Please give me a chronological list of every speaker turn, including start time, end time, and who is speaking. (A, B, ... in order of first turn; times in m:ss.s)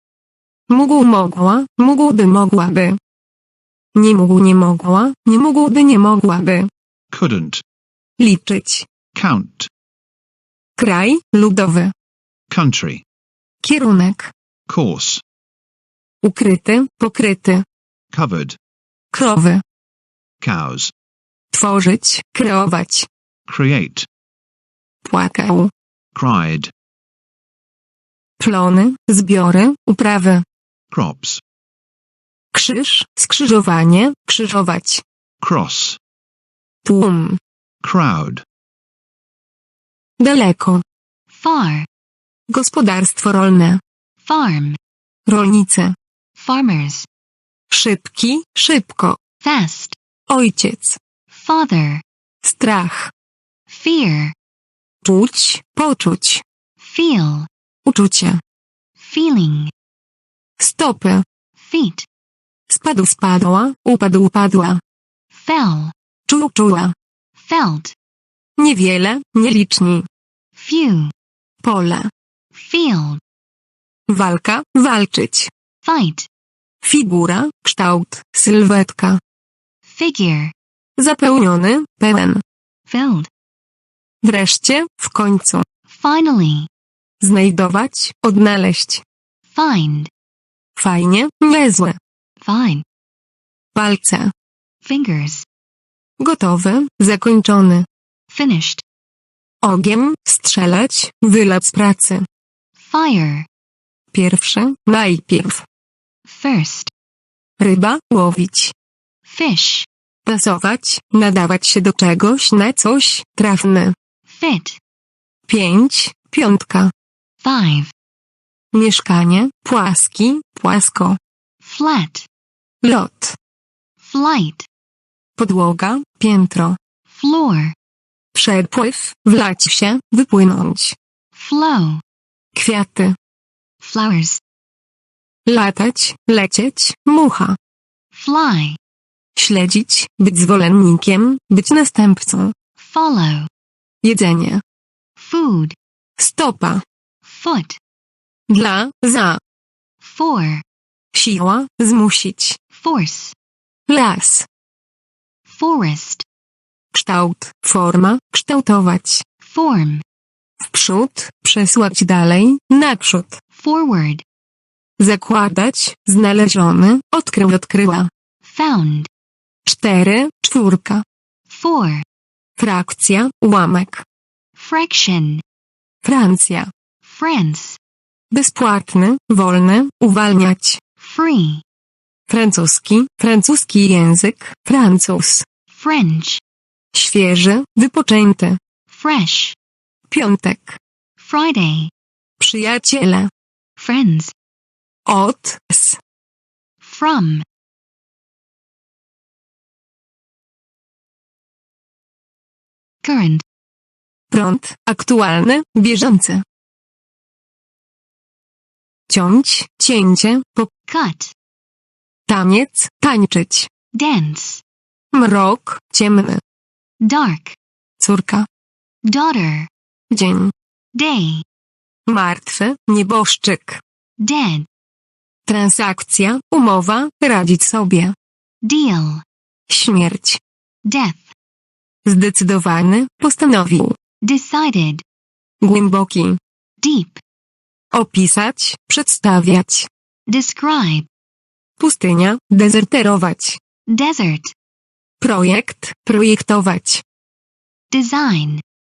0:00.7-0:03.0 A
0:04.0-0:06.7 A
0:07.1-0:07.6 B
0:08.2-0:08.9 A
0:09.2-0:09.7 B
0:10.8-0:11.9 A
0:12.5-0:13.0 B
0:13.6-0:14.3 A
0:14.7-0:15.2 B
0:16.2-0:17.6 A
0:18.1-0:18.6 B
0:19.1-0:19.6 A
0:20.4-0:20.9 B
0:21.5-0:23.1 A
0:23.5-0:24.1 B
0:25.0-0:25.7 A
0:26.2-0:26.7 B
0:28.4-0:30.4 A
0:30.9-0:31.4 B
0:32.5-0:35.0 A
0:35.4-0:36.0 B
0:36.8-0:37.4 A
0:37.8-0:38.4 B
0:40.2-0:40.8 A
0:41.3-0:41.9 C
0:42.5-0:43.8 A
0:44.2-0:44.8 C
0:45.3-0:46.0 A
0:46.4-0:47.1 C
0:47.7-0:49.2 A
0:49.4-0:50.0 C
0:50.3-0:51.0 A
0:51.3-0:52.0 C
0:52.4-0:53.1 A
0:53.7-0:54.3 C
0:55.0-0:56.4 A
0:56.8-0:57.5 C
0:57.9-0:58.4 A
0:59.0-0:59.7 C
1:00.6-1:01.2 A
1:01.6-1:02.1 C
1:02.7-1:04.8 A
1:05.3-1:05.9 C
1:06.3-1:06.9 A
1:07.4-1:07.9 C
1:08.6-1:10.0 A
1:10.6-1:11.1 C
1:11.6-1:12.1 A
1:12.5-1:13.2 C
1:14.1-1:15.5 A
1:15.8-1:16.3 C
1:16.8-1:19.2 A
1:19.9-1:20.5 C
1:21.0-1:22.4 A
1:22.9-1:23.3 C
1:24.2-1:25.6 A
1:25.9-1:26.7 C
1:27.2-1:29.0 A
1:29.5-1:30.1 C
1:30.8-1:32.0 A
1:32.4-1:32.8 C
1:33.8-1:34.3 A
1:34.8-1:35.5 C
1:36.2-1:37.9 A
1:38.3-1:38.8 C
1:39.6-1:42.3 A
1:42.8-1:43.5 C
1:44.1-1:45.6 A
1:46.3-1:46.9 C
1:47.6-1:48.7 A
1:49.3-1:49.9 C
1:50.3-1:54.0 A
1:54.3-1:54.8 C
1:55.5-1:56.9 A
1:57.4-1:57.9 C
1:58.7-2:01.2 A
2:01.6-2:02.3 C
2:02.8-2:03.4 A
2:04.0-2:04.7 C
2:05.4-2:06.8 A
2:07.1-2:07.7 C
2:08.4-2:11.0 A
2:11.4-2:12.0 C
2:12.6-2:13.2 A
2:13.8-2:14.4 C
2:15.5-2:17.6 A
2:18.1-2:18.8 C
2:19.4-2:22.5 A
2:22.8-2:23.5 C
2:24.0-2:24.6 A
2:25.2-2:25.8 C
2:26.2-2:26.8 A
2:27.2-2:27.8 C
2:28.5-2:29.4 A
2:30.0-2:30.6 C
2:31.1-2:32.6 A
2:32.7-2:33.3 C
2:33.9-2:34.5 A
2:35.5-2:36.2 C
2:36.9-2:39.2 A
2:39.4-2:40.0 C
2:40.6-2:43.4 A
2:43.6-2:44.2 C
2:45.0-2:48.1 A
2:48.4-2:49.1 C
2:49.7-2:51.0 A
2:51.5-2:52.0 C
2:52.6-2:54.0 A
2:54.6-2:55.4 C
2:56.0-2:56.7 A
2:57.1-2:57.8 C
2:58.3-3:00.8 A
3:01.0-3:01.6 C
3:02.3-3:05.5 A
3:05.7-3:06.4 C
3:06.9-3:08.6 A
3:08.9-3:09.6 C
3:10.1-3:10.8 A
3:11.2-3:11.9 C
3:12.4-3:13.3 A
3:13.8-3:14.3 C
3:15.1-3:16.0 A
3:16.8-3:17.4 C
3:23.0-3:23.4 C
3:24.3-3:26.4 A
3:29.1-3:30.7 A
3:30.9-3:31.3 C
3:32.3-3:33.7 A
3:33.9-3:34.6 C
3:35.1-3:36.4 A
3:37.0-3:37.6 C
3:38.0-3:38.5 A
3:39.0-3:39.7 C
3:40.1-3:40.5 A
3:40.9-3:41.4 C
3:42.1-3:43.8 A
3:44.2-3:44.7 C
3:45.5-3:48.1 A
3:48.6-3:49.2 C
3:49.7-3:50.4 A
3:50.8-3:51.3 C
3:52.1-3:54.0 A
3:54.2-3:55.0 C
3:55.6-3:56.4 A
3:56.8-3:57.2 C
3:57.9-3:59.9 A
4:00.3-4:01.1 C
4:01.8-4:03.6 A
4:03.9-4:04.5 C
4:05.2-4:07.0 A
4:07.9-4:08.6 C